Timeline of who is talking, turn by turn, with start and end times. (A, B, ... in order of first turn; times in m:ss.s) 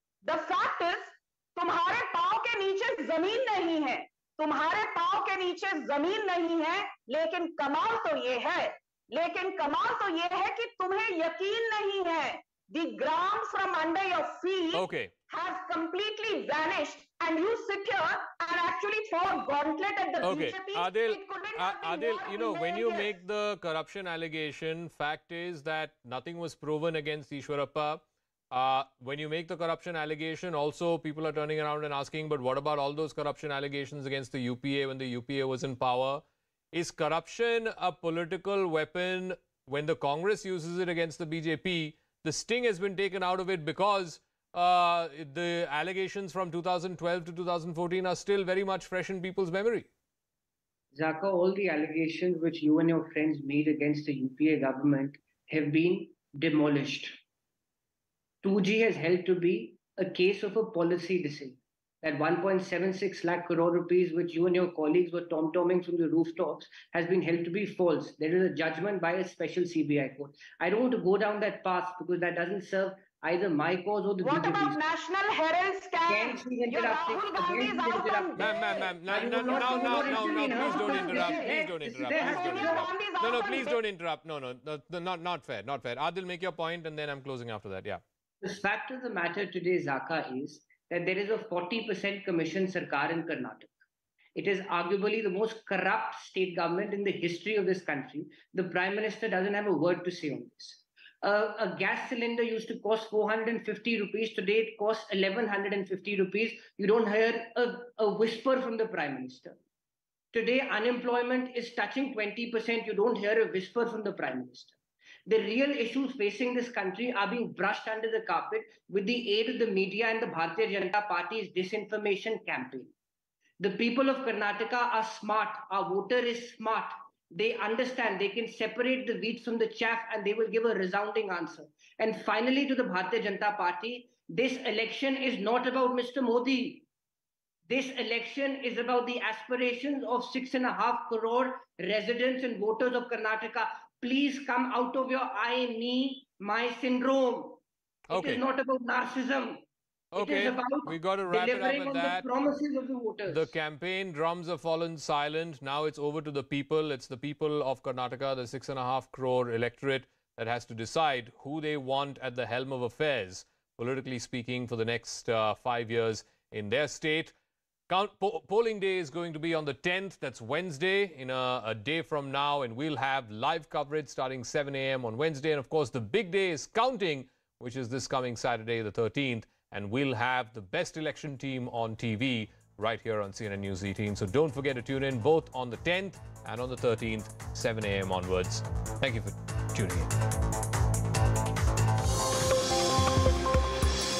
0:00.2-0:23.1 A
0:14.7-0:15.1 B
0:20.2-0:49.9 B
0:51.0-0:57.2 C
0:58.4-1:14.8 C
1:14.2-1:21.7 A
1:16.1-1:22.7 C
1:18.4-1:28.0 B
1:22.2-1:23.8 A
1:28.4-1:33.7 C
1:34.4-1:49.6 C
1:50.3-2:02.9 C
2:03.6-2:16.8 C
2:17.7-2:29.6 C
2:28.1-2:28.4 B
2:30.1-2:32.3 B
2:30.2-2:33.5 C
2:33.3-2:47.4 B
2:47.9-3:10.2 B